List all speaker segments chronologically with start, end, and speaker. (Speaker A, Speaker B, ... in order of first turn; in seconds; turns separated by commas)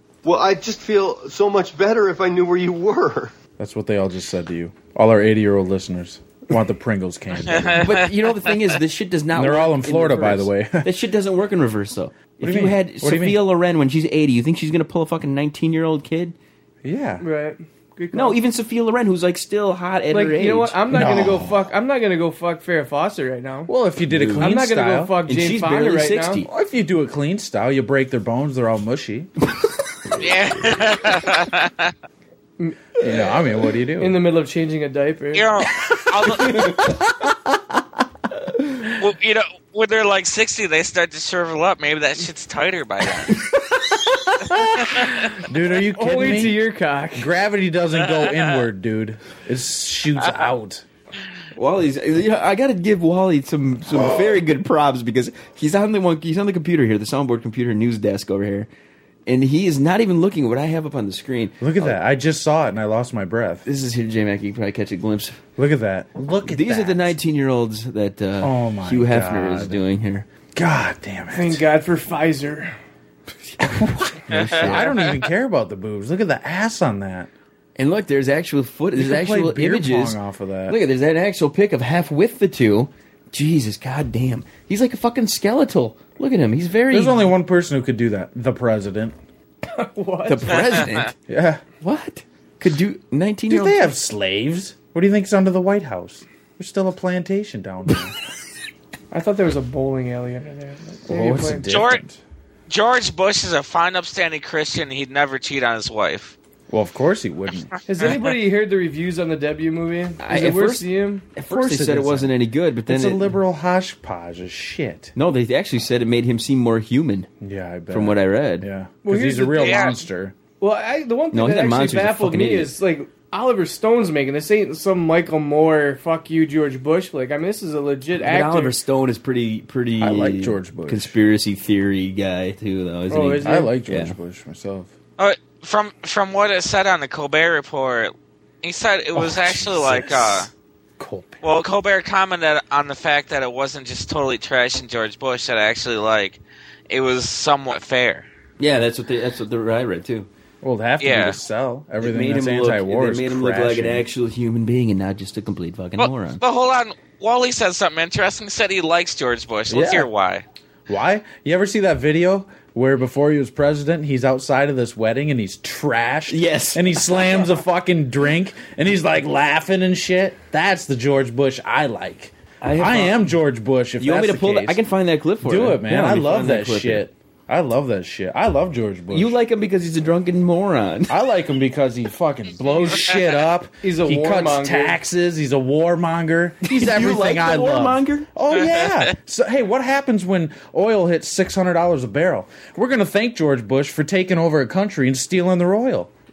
Speaker A: 0.2-3.3, Speaker B: 3.6-8.0, Speaker C: 7.5-8.1, Speaker D: 7.8-16.4, Speaker B: 9.3-10.9, Speaker B: 12.4-13.5, Speaker B: 16.8-17.2, Speaker E: 17.2-18.4, Speaker D: 18.1-20.8, Speaker E: 20.1-23.7, Speaker B: 20.9-21.6, Speaker B: 23.7-25.2, Speaker D: 24.1-24.5, Speaker E: 24.4-26.4, Speaker D: 25.2-26.5, Speaker B: 26.4-29.3, Speaker C: 30.2-31.9, Speaker B: 33.0-34.2, Speaker E: 34.0-35.5, Speaker C: 35.3-36.6, Speaker B: 36.3-37.6, Speaker D: 36.4-36.9, Speaker C: 38.9-43.3, Speaker D: 43.3-44.0, Speaker B: 44.5-46.6, Speaker C: 44.6-45.4, Speaker E: 45.9-47.3, Speaker B: 47.1-50.8, Speaker C: 48.2-48.6, Speaker D: 51.5-58.7, Speaker D: 59.2-62.0, Speaker B: 61.6-63.7, Speaker D: 63.6-65.4, Speaker B: 65.6-67.2, Speaker D: 66.4-70.3, Speaker B: 68.4-69.8, Speaker B: 70.5-71.6, Speaker E: 71.3-72.7, Speaker B: 73.6-77.3, Speaker D: 74.3-75.0, Speaker C: 74.3-75.2, Speaker D: 77.8-87.3, Speaker B: 79.0-80.8, Speaker B: 86.9-89.2, Speaker E: 89.7-90.8, Speaker D: 90.2-91.1, Speaker B: 91.3-91.6, Speaker D: 91.7-93.9, Speaker B: 93.5-98.2, Speaker E: 99.1-101.7, Speaker B: 101.1-102.2, Speaker C: 101.7-102.0, Speaker C: 102.7-106.3, Speaker B: 106.7-107.8, Speaker E: 107.9-111.3, Speaker D: 110.2-113.3, Speaker B: 111.5-112.3, Speaker B: 112.9-115.1, Speaker D: 115.2-117.3, Speaker B: 117.4-120.3, Speaker D: 117.9-118.7, Speaker E: 119.0-120.0, Speaker C: 119.6-119.9, Speaker E: 120.6-128.8, Speaker D: 121.3-122.7, Speaker D: 128.2-134.1, Speaker B: 130.0-131.1, Speaker E: 133.1-133.7, Speaker B: 133.4-134.9, Speaker C: 135.2-140.5, Speaker B: 139.1-141.4, Speaker C: 141.4-148.3, Speaker D: 148.6-150.3, Speaker B: 150.6-154.1, Speaker C: 151.0-151.4, Speaker D: 152.0-156.4, Speaker C: 156.0-160.4, Speaker B: 159.7-160.1, Speaker B: 160.9-174.8, Speaker D: 166.3-166.8, Speaker D: 172.6-173.3, Speaker D: 174.0-177.1, Speaker B: 175.4-179.4, Speaker D: 179.1-181.2, Speaker B: 181.1-196.1, Speaker E: 183.8-185.0, Speaker D: 186.6-188.3, Speaker C: 188.6-188.9